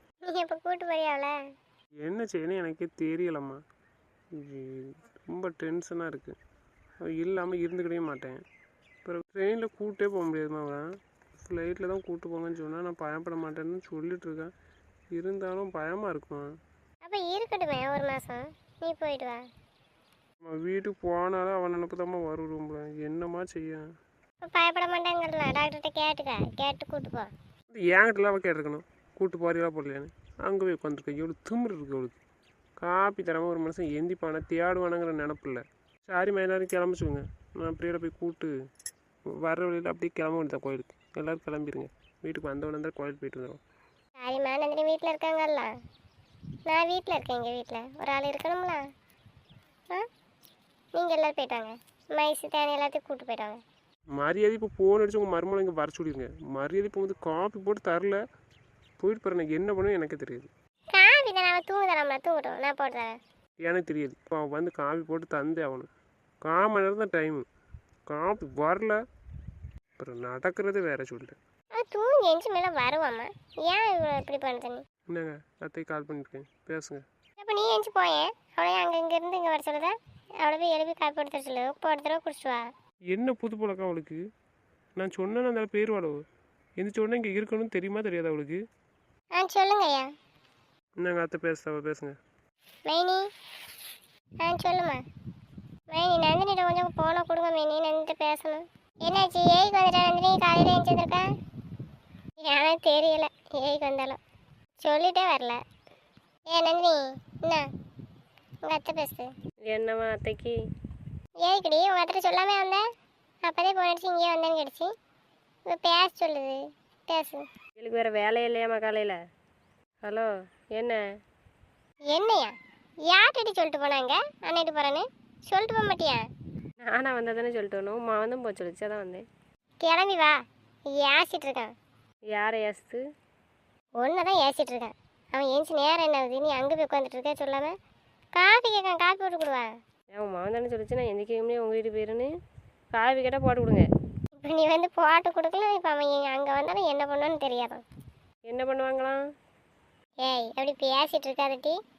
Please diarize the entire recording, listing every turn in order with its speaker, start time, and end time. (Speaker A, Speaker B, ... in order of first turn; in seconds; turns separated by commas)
Speaker A: 0.2-1.4, Speaker B: 2.0-3.6, Speaker B: 4.3-6.3, Speaker B: 7.0-8.4, Speaker B: 9.0-14.5, Speaker B: 15.1-16.5, Speaker A: 17.0-19.4, Speaker B: 20.4-23.9, Speaker A: 24.4-27.3, Speaker B: 27.7-32.2, Speaker B: 32.8-38.5, Speaker B: 39.4-43.6, Speaker A: 44.2-45.7, Speaker A: 46.7-48.8, Speaker A: 50.9-53.6, Speaker B: 54.1-58.2, Speaker B: 59.0-60.5, Speaker A: 60.9-63.1, Speaker B: 63.6-65.9, Speaker B: 66.4-67.5, Speaker B: 68.1-69.0, Speaker B: 70.0-71.4, Speaker A: 71.7-74.8, Speaker B: 75.1-77.0, Speaker A: 77.4-82.7, Speaker B: 83.1-84.2, Speaker B: 85.0-86.2, Speaker B: 86.8-88.6, Speaker A: 89.3-90.1, Speaker B: 91.0-92.2, Speaker A: 92.8-93.2, Speaker A: 94.4-95.0, Speaker A: 95.9-101.3, Speaker A: 102.4-104.2, Speaker A: 104.8-105.6, Speaker A: 106.5-107.6, Speaker A: 108.7-109.3, Speaker C: 109.7-110.6, Speaker A: 111.4-112.8, Speaker A: 113.4-114.9, Speaker A: 115.7-117.4, Speaker C: 117.8-119.2, Speaker C: 120.0-121.0, Speaker A: 122.1-122.5, Speaker A: 123.1-126.2, Speaker C: 126.8-129.2, Speaker A: 129.8-130.4, Speaker A: 130.9-131.7, Speaker C: 132.3-133.0, Speaker A: 134.0-137.7, Speaker A: 138.3-139.7, Speaker C: 140.1-142.3, Speaker C: 142.9-143.8, Speaker A: 144.4-147.8, Speaker C: 148.5-149.2, Speaker A: 150.2-151.8